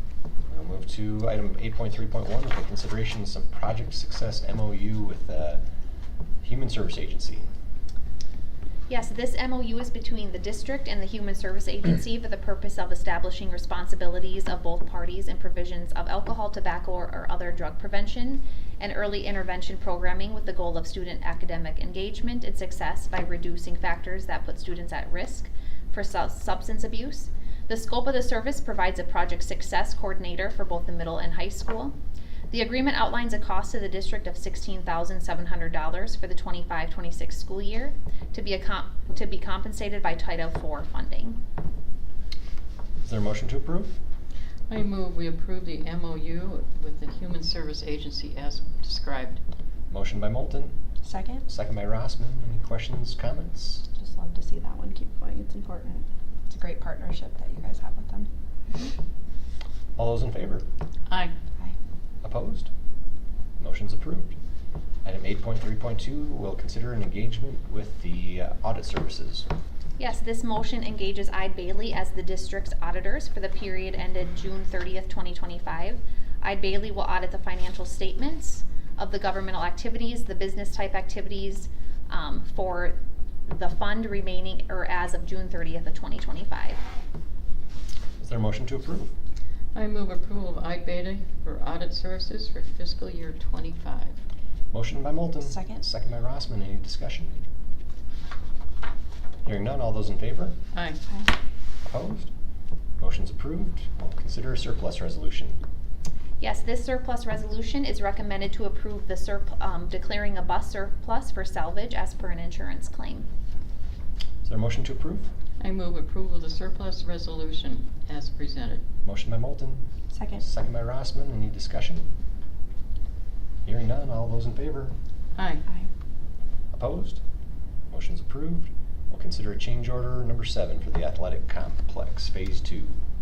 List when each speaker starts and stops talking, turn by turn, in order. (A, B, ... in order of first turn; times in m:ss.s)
0:00.5-0:05.6 A
0:06.4-0:07.5 A
0:08.9-0:32.0 B
0:32.5-0:41.4 B
0:43.0-0:43.9 A
0:44.7-0:49.4 C
0:49.9-0:50.8 A
0:51.0-0:51.4 D
0:51.5-0:53.8 A
0:54.0-0:58.3 D
1:00.0-1:00.7 A
1:01.1-1:01.3 C
1:02.2-1:02.7 A
1:03.6-1:04.4 A
1:05.0-1:09.5 A
1:10.0-1:23.0 B
1:23.5-1:26.8 B
1:28.2-1:29.1 A
1:29.7-1:34.2 C
1:34.7-1:37.4 A
1:35.4-1:35.8 D
1:39.4-1:40.6 A
1:40.7-1:41.0 C
1:41.8-1:42.3 A
1:43.0-1:45.6 A
1:46.4-1:53.3 B
1:54.4-1:55.3 A
1:55.6-1:58.8 C
1:59.0-1:59.8 A
2:00.1-2:00.4 D
2:00.4-2:02.1 A
2:03.6-2:04.9 A
2:05.4-2:05.6 C
2:06.7-2:07.2 A
2:07.9-2:13.0 A